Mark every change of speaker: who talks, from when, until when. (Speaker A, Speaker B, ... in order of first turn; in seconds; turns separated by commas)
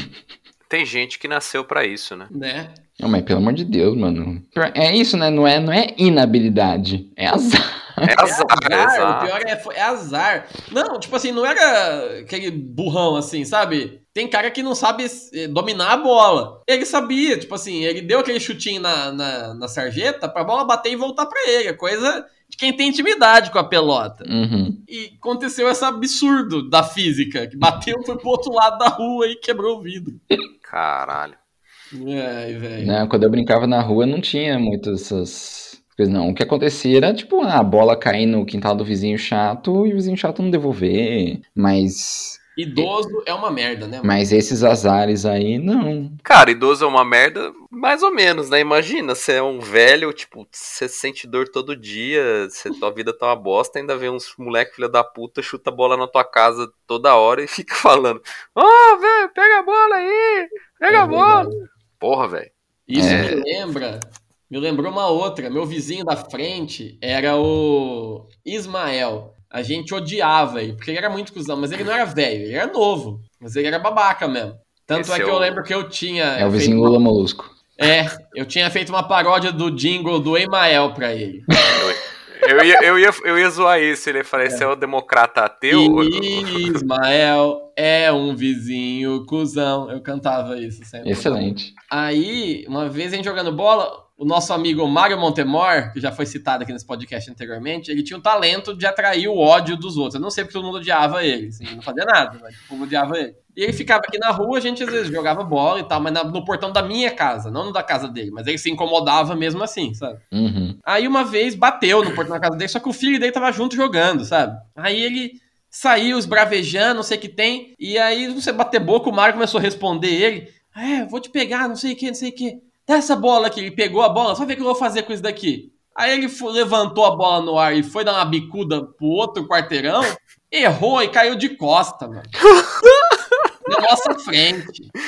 Speaker A: 0.7-2.3, Speaker B: 2.3-2.8, Speaker C: 3.0-8.1, Speaker A: 8.0-9.4, Speaker B: 8.2-24.3, Speaker C: 24.2-24.8, Speaker B: 24.9-30.2, Speaker A: 30.6-31.4, Speaker B: 31.9-33.0, Speaker C: 32.8-42.4, Speaker B: 42.6-44.2, Speaker C: 44.0-46.2, Speaker A: 46.2-63.4, Speaker B: 60.9-61.6, Speaker B: 62.9-77.0, Speaker C: 62.9-63.3, Speaker A: 74.9-75.6, Speaker C: 76.4-77.6, Speaker B: 77.8-81.5, Speaker A: 81.8-86.8, Speaker B: 85.7-110.2, Speaker C: 91.0-91.7, Speaker C: 110.3-110.8, Speaker B: 110.8-132.3, Speaker A: 132.5-133.2, Speaker B: 133.7-134.9